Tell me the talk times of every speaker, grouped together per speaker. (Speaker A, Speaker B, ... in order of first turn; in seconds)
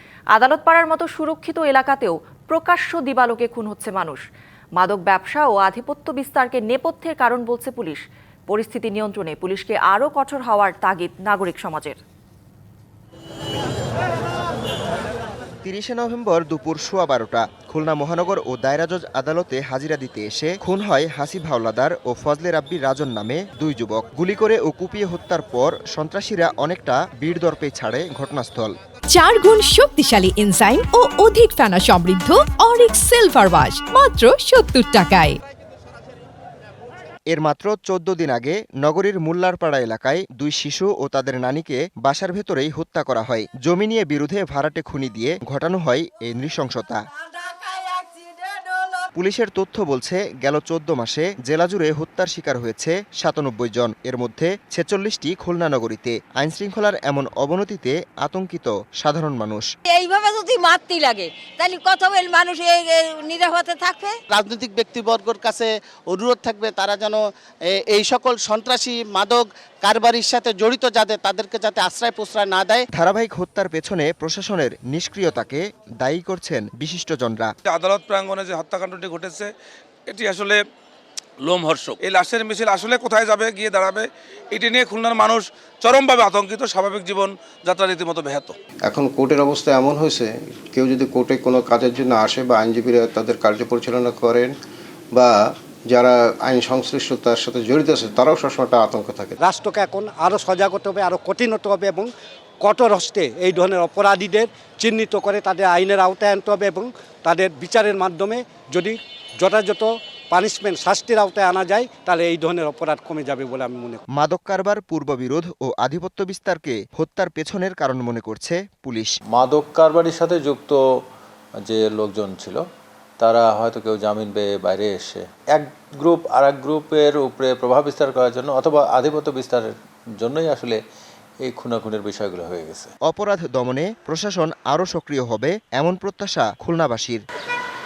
Speaker A: 0.3-4.2, 4.8-12.0
Speaker B: 15.6-28.7, 37.3-47.0, 49.1-59.7, 72.9-77.5, 114.2-119.1, 133.1-137.2
Speaker C: 29.1-35.4
Speaker D: 47.1-49.0, 59.9-64.2
Speaker E: 64.3-72.8
Speaker F: 77.7-79.4, 80.1-80.5, 82.0-84.0, 84.5-88.5
Speaker G: 88.9-94.5, 95.1-99.4
Speaker H: 99.4-102.1, 102.6-114.0
Speaker I: 119.3-120.8, 121.6-122.6, 123.2-130.8, 131.4-132.9